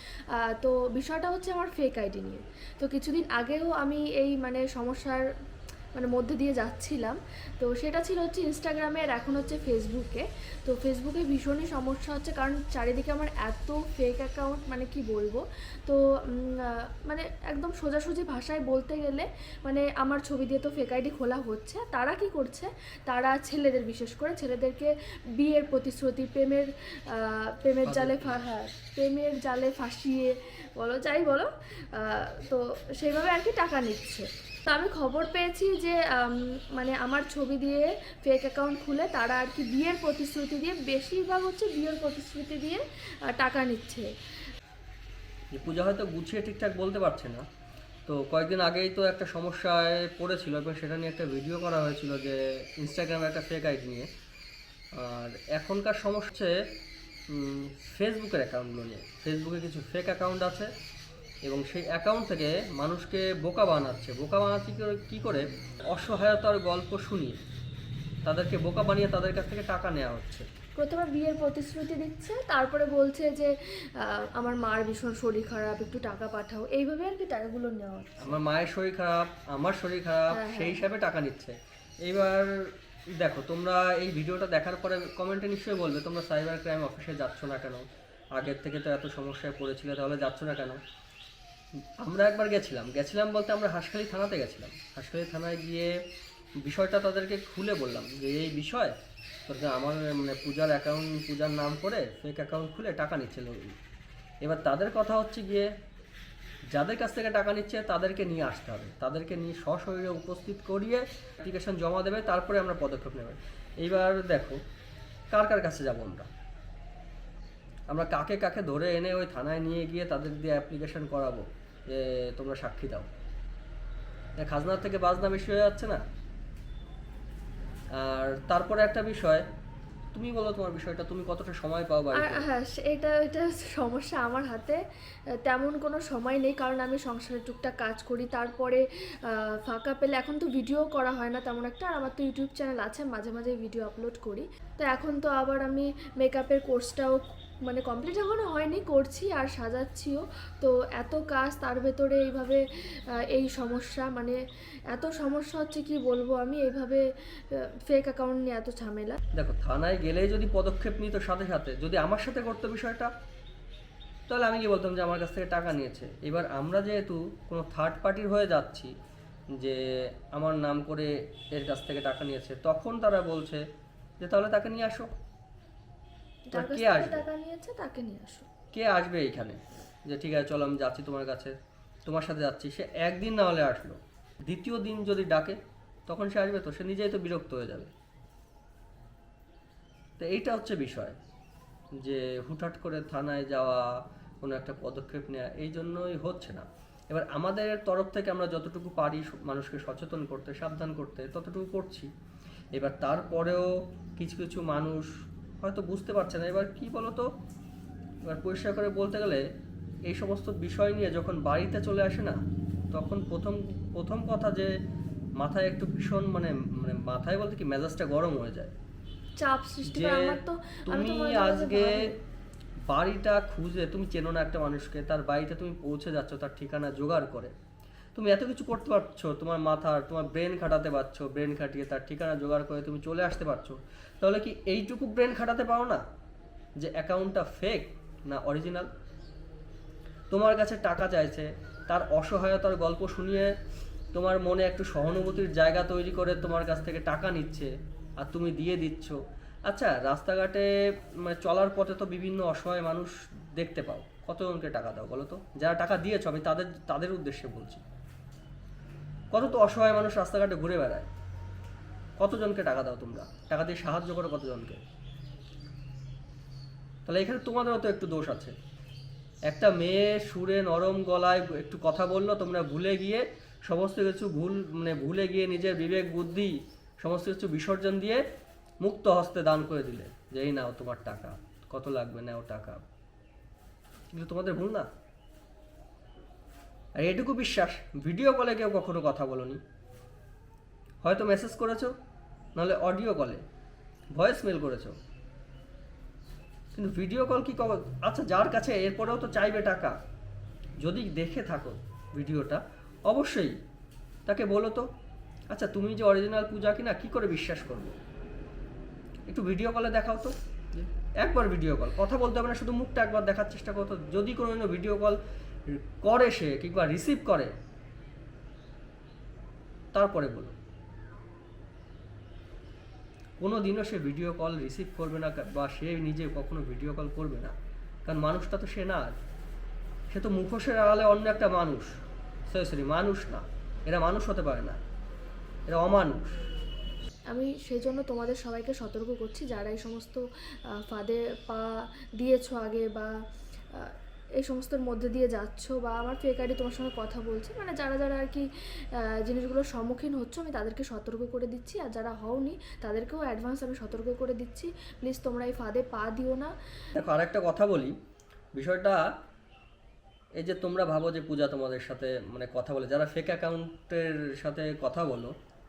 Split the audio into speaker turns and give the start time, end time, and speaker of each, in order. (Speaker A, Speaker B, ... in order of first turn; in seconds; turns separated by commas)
Speaker A: 0.4-5.2, Speaker A: 6.0-44.1, Speaker B: 27.9-28.4, Speaker B: 45.5-47.4, Speaker B: 48.1-54.1, Speaker B: 55.0-56.5, Speaker B: 57.3-60.7, Speaker B: 61.5-67.4, Speaker B: 68.2-70.5, Speaker A: 70.8-78.4, Speaker B: 78.2-82.5, Speaker A: 80.3-80.8, Speaker B: 83.2-90.8, Speaker B: 92.0-95.9, Speaker B: 96.7-98.9, Speaker B: 99.5-103.6, Speaker B: 104.4-105.7, Speaker B: 106.7-114.6, Speaker B: 115.3-116.3, Speaker B: 117.9-123.1, Speaker B: 124.4-126.0, Speaker B: 128.0-129.5, Speaker B: 130.1-132.4, Speaker A: 132.2-134.8, Speaker A: 135.4-152.6, Speaker A: 153.3-154.4, Speaker A: 154.9-159.2, Speaker B: 159.3-163.1, Speaker B: 164.3-168.9, Speaker B: 169.6-173.6, Speaker B: 174.2-175.1, Speaker A: 176.5-178.5, Speaker B: 176.5-177.2, Speaker B: 178.7-181.6, Speaker B: 182.1-187.9, Speaker B: 190.2-191.2, Speaker B: 192.0-193.9, Speaker B: 194.4-202.1, Speaker B: 202.8-205.1, Speaker B: 205.6-207.3, Speaker B: 208.3-209.4, Speaker B: 210.1-212.4, Speaker B: 212.9-214.7, Speaker B: 215.4-218.8, Speaker A: 219.4-222.2, Speaker B: 219.9-222.0, Speaker B: 222.9-227.5, Speaker B: 228.2-236.0, Speaker B: 236.8-238.9, Speaker B: 240.3-243.5, Speaker B: 244.1-250.7, Speaker B: 251.2-257.8, Speaker B: 259.3-261.1, Speaker B: 262.2-264.8, Speaker B: 267.1-268.6, Speaker B: 269.5-278.2, Speaker B: 278.8-282.8, Speaker B: 284.1-284.9, Speaker B: 287.0-289.6, Speaker B: 291.0-291.9, Speaker B: 292.6-293.4, Speaker B: 294.1-295.0, Speaker B: 296.7-300.0, Speaker B: 300.8-303.6, Speaker B: 304.3-304.9, Speaker B: 305.5-308.0, Speaker B: 309.3-315.2, Speaker B: 315.7-317.5, Speaker B: 319.9-320.6, Speaker B: 323.4-327.5, Speaker B: 328.1-329.1, Speaker B: 330.1-331.9, Speaker B: 332.5-334.8, Speaker B: 335.7-336.3, Speaker A: 337.3-340.2, Speaker A: 340.7-343.1, Speaker A: 343.7-348.4, Speaker A: 349.0-356.5, Speaker B: 356.9-357.9, Speaker B: 358.6-359.1, Speaker B: 360.4-365.3